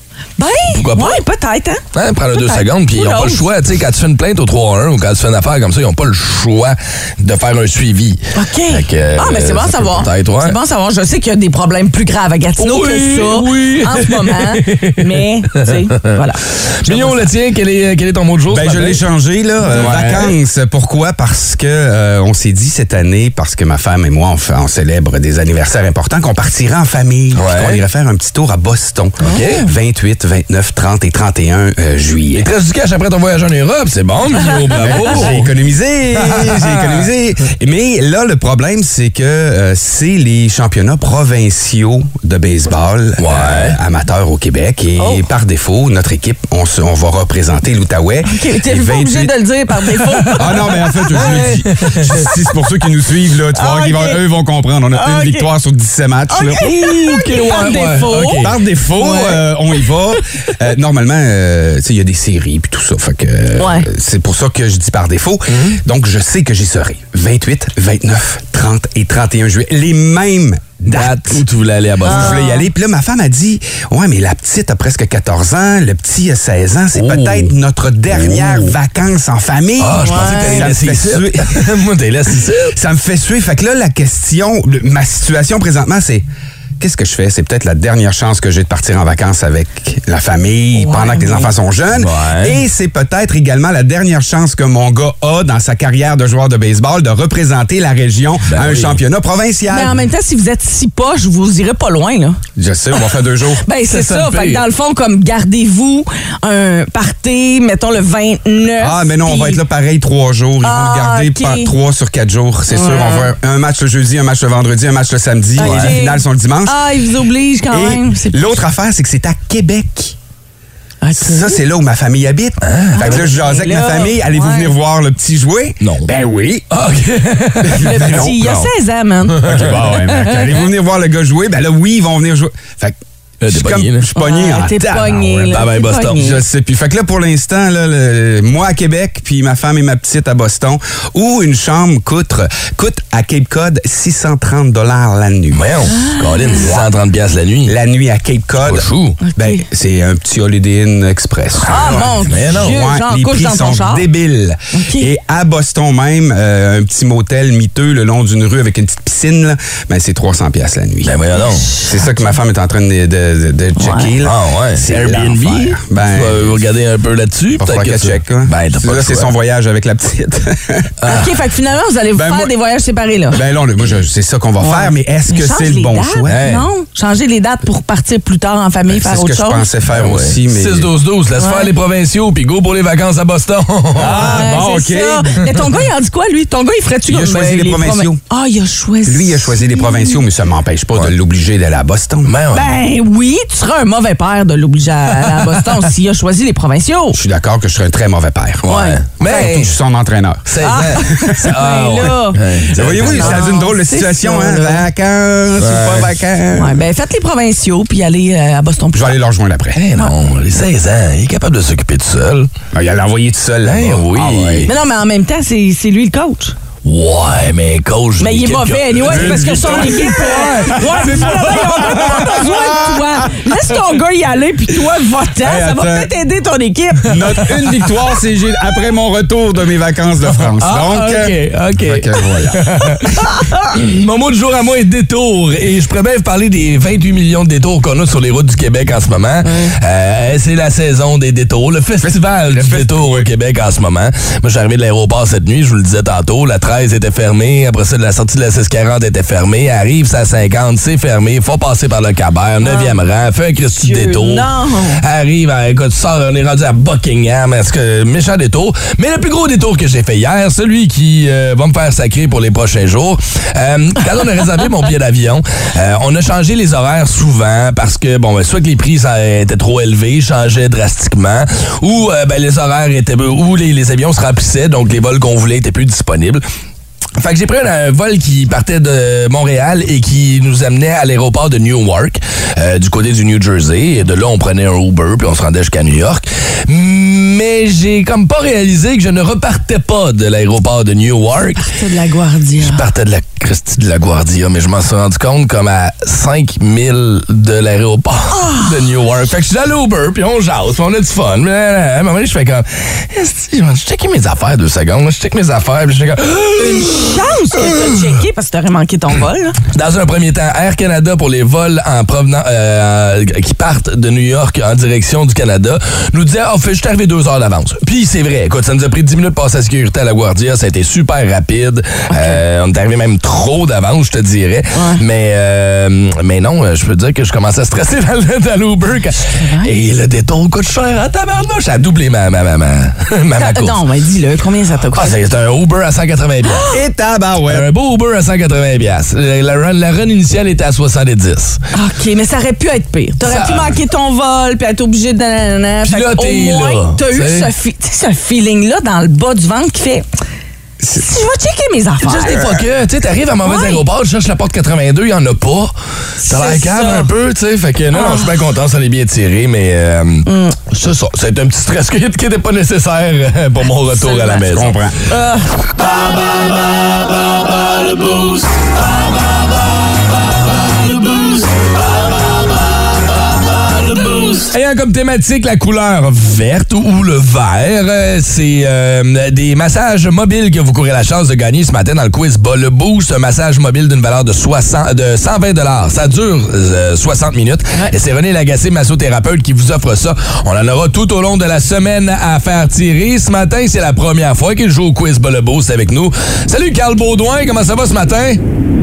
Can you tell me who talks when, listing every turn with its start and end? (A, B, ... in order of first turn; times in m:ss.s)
0:00.4-0:01.8 A
0:00.7-0:01.2 B
0:01.9-0:10.6 B
0:02.3-0:03.4 A
0:08.3-0:17.3 A
0:12.6-0:16.1 B
0:16.8-0:19.0 B
0:18.5-0:32.5 C
0:19.7-0:20.4 B
0:27.4-0:27.8 B
0:29.2-0:29.6 B
0:29.2-0:29.7 A
0:32.4-0:35.5 B
0:34.7-0:49.4 C
0:36.2-0:37.1 B
0:43.2-0:43.8 B
0:45.0-0:45.2 A
0:48.3-0:51.6 A
0:50.3-0:50.5 B
0:50.3-0:56.7 C
0:51.2-0:52.2 B
0:53.6-0:54.2 A
0:54.9-0:55.5 A
0:56.3-0:59.5 A
0:56.6-0:58.6 B
0:58.4-1:11.4 C
1:03.6-1:03.9 A
1:05.5-1:05.8 B
1:10.9-1:12.4 B
1:12.0-1:21.6 C
1:12.0-1:12.7 A
1:16.9-1:17.5 B
1:18.1-1:18.7 B
1:19.8-1:22.8 B
1:20.0-1:20.7 A
1:22.7-1:26.2 C
1:26.8-1:40.0 C
1:30.8-1:31.5 A
1:31.9-1:32.6 B
1:38.5-1:39.0 B
1:39.7-1:42.4 A
1:42.6-1:43.6 C
1:43.7-1:49.6 A
1:43.9-1:44.6 B
1:48.8-1:56.8 C
1:50.6-1:51.7 A
1:52.7-1:53.3 A
1:55.6-1:58.5 A
1:55.6-1:55.9 B
1:57.7-2:00.2 C
2:01.0-2:01.6 A
2:01.2-2:06.7 C
2:02.6-2:03.2 B
2:03.0-2:04.7 A
2:05.8-2:06.1 B
2:06.7-2:08.7 B
2:07.6-2:08.4 C
2:07.7-2:10.6 A
2:09.3-2:09.9 B
2:09.4-2:13.0 C
2:13.4-2:14.1 B
2:13.5-2:25.9 C
2:14.2-2:16.4 A
2:15.5-2:16.2 B
2:25.5-2:27.8 B
2:25.9-2:26.7 A
2:26.6-2:26.9 C
2:27.7-2:41.2 C
2:28.6-2:29.2 B
2:29.2-2:29.6 A
2:31.6-2:34.1 A
2:32.3-2:32.8 B
2:34.7-2:35.1 A
2:41.0-2:41.7 B
2:41.4-2:41.9 A
2:41.8-2:46.6 C
2:43.8-2:44.1 A
2:44.2-2:49.3 B
2:47.6-2:50.9 C
2:51.0-2:51.3 B
2:51.1-2:53.4 A
2:52.2-2:52.5 C
2:53.3-2:56.4 C
2:54.6-2:59.7 A
2:56.3-2:56.7 B
2:58.9-3:00.9 C
2:59.9-3:04.5 B
3:01.4-3:01.7 A
3:04.0-3:05.4 C
3:04.0-3:10.2 A
3:07.1-3:08.2 C
3:09.1-3:12.3 C
3:12.3-3:12.7 B
3:12.5-3:17.2 A
3:17.1-3:18.7 C
3:18.6-3:19.8 B
3:18.7-3:19.7 A
3:19.2-3:21.3 C
3:20.5-3:23.4 B
3:20.6-3:22.4 A
3:22.7-3:26.8 C
3:23.0-3:24.9 A
3:25.6-3:26.2 B
3:26.5-3:29.2 A
3:28.9-3:29.8 C
3:29.8-3:32.5 B
3:32.7-3:34.7 C
3:33.6-3:34.7 B
3:34.7-3:36.6 A
3:36.8-3:42.6 B
3:38.2-3:47.4 A
3:39.0-3:43.5 C
3:45.4-3:46.1 C
3:47.1-3:52.7 C
3:47.1-3:47.5 B
3:50.6-4:36.4 B
3:59.4-3:59.7 A
4:02.0-4:03.3 C
4:12.6-4:13.0 A
4:13.8-4:15.0 A
4:37.2-4:51.7 B
4:51.6-4:52.8 A
4:52.6-5:07.9 B
4:58.3-4:58.7 A
5:06.6-5:09.6 A
5:09.7-5:33.8 B
5:22.1-5:22.4 A
5:24.7-5:25.0 A
5:29.4-5:29.7 A
5:33.4-5:35.1 A
5:34.9-5:36.7 B
5:36.4-5:36.8 A
5:36.7-5:37.7 C
5:37.5-5:41.6 B
5:41.7-5:50.0 A
5:43.2-5:43.8 B
5:45.8-5:47.5 B
5:50.9-5:52.6 A
5:52.0-6:04.8 B
5:53.4-5:53.8 A
5:56.2-5:57.1 A
5:57.9-5:58.3 A
6:00.3-6:00.6 A
6:03.9-6:04.5 A
6:04.4-6:05.0 C
6:05.1-6:05.5 A
6:08.0-6:08.4 B
6:14.1-6:38.4 B